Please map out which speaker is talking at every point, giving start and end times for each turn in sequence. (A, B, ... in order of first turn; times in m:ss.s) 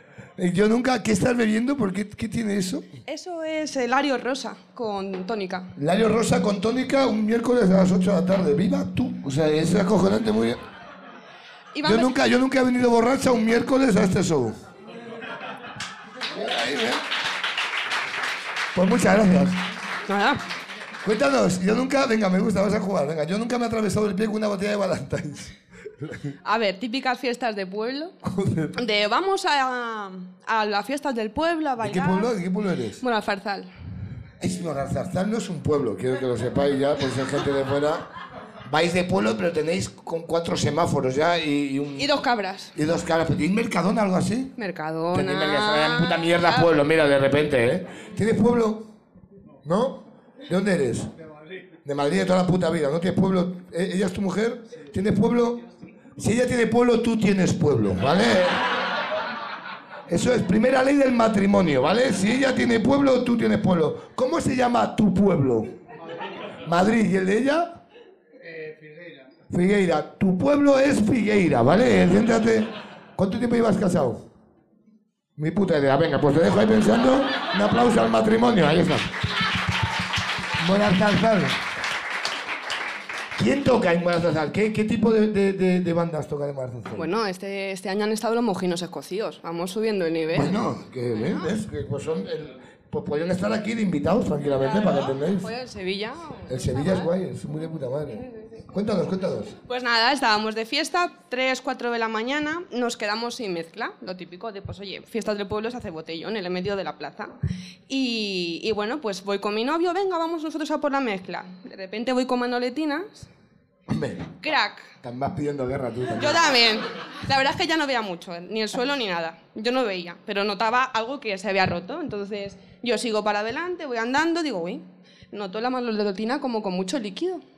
0:00.4-0:02.9 A
0:03.1-0:05.7 B
0:05.8-0:10.6 A
0:11.7-0:12.1 B
0:11.8-0:14.6 A
0:16.3-0:17.0 A
0:18.8-0:19.6 A
0:20.1-0:20.4 B
0:21.0-0:26.3 A
0:26.4-0:28.2 B
0:28.2-0:28.8 A
0:28.8-0:32.3 B
0:31.8-0:33.0 A
0:33.0-0:33.7 B
0:34.4-0:38.1 A
0:38.7-0:42.1 A
0:42.0-0:42.7 B
0:42.8-0:44.5 A
0:44.6-0:46.7 B
0:45.1-0:48.9 A
0:49.6-0:51.1 A
0:51.8-0:55.6 A
0:56.2-0:58.6 A
1:00.1-1:05.7 A
1:06.7-1:07.8 A
1:09.5-1:14.3 A
1:15.4-1:19.1 A
1:20.6-1:21.6 A
1:23.4-1:27.1 A
1:26.9-1:30.6 B
1:30.3-1:35.5 A
1:34.7-1:37.1 B
1:36.5-1:39.6 A
1:39.7-1:47.4 B
1:47.9-1:53.3 B
1:53.9-1:54.4 A
1:54.4-1:54.9 B
1:55.0-1:56.6 A
1:56.2-2:07.4 B